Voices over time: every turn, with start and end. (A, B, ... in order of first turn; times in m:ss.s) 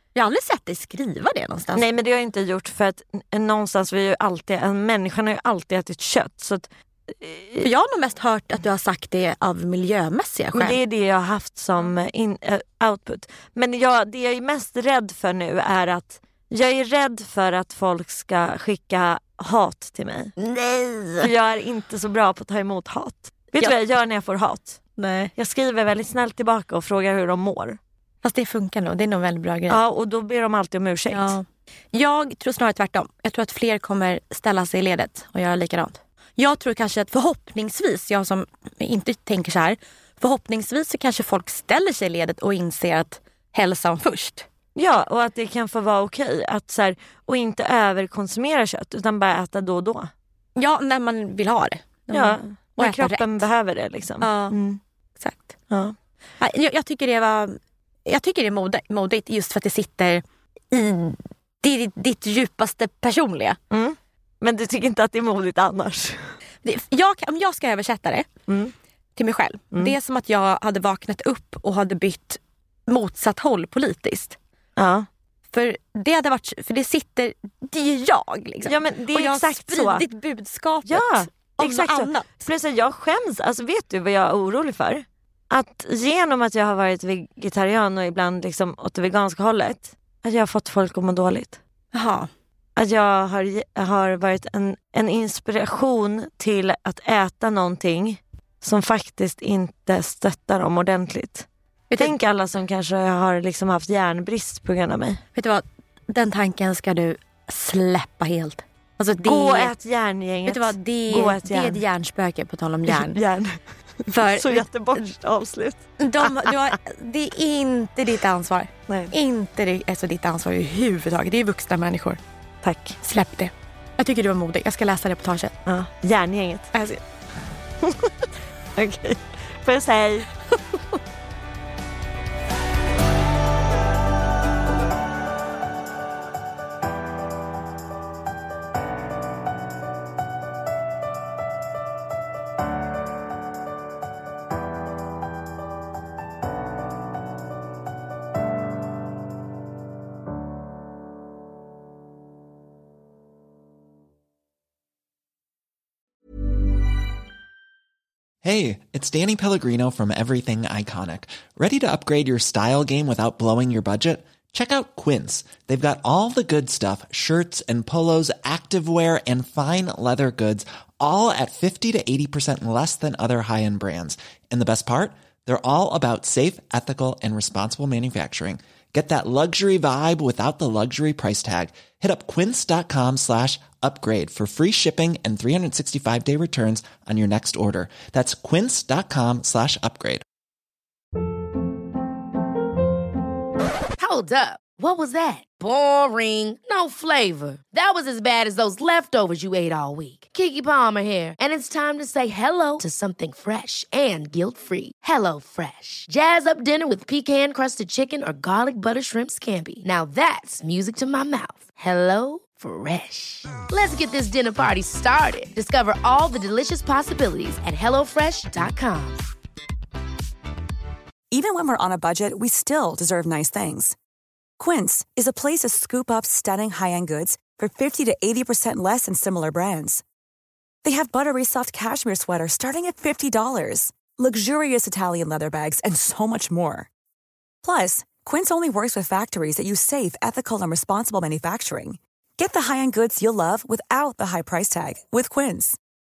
0:00.1-0:01.8 A
0:01.7-0:07.7 B
0:07.6-0:10.8 A
0:10.5-0:24.8 B
0:25.0-0:25.3 A
0:25.4-0:27.8 B
0:28.2-0:29.8 A
0:29.7-0:31.4 B
0:31.1-0:44.4 A
0:44.8-0:50.1 B
0:50.6-0:53.4 A
0:52.1-0:54.8 B
0:54.2-0:54.6 A
0:55.2-0:55.5 A
0:55.7-0:55.9 B
0:56.4-1:03.6 A
1:03.7-1:06.3 B
1:06.6-1:08.3 A
1:08.5-1:08.7 B
1:09.2-1:14.4 A
1:14.8-1:15.1 B
1:15.5-1:22.3 A
1:18.6-1:20.0 B
1:20.8-1:31.6 B
1:31.9-1:32.3 A
1:32.8-1:41.4 B
1:41.9-1:42.2 A
1:42.0-1:45.2 B
1:45.3-1:49.7 A
1:49.2-1:51.8 B
1:50.5-1:53.2 A
1:52.9-1:56.7 B
1:54.1-1:55.1 A
1:56.0-2:02.2 A
1:58.9-1:59.1 B
2:02.6-2:03.0 B
2:03.0-2:05.5 A
2:05.7-2:06.7 B
2:06.7-2:07.0 A
2:07.8-2:10.3 B
2:10.5-2:11.0 A
2:38.4-3:10.2 C
3:14.0-3:39.2 D
3:41.3-3:44.0 E
3:44.6-3:50.0 E
3:50.8-3:56.9 E
3:57.6-4:05.8 E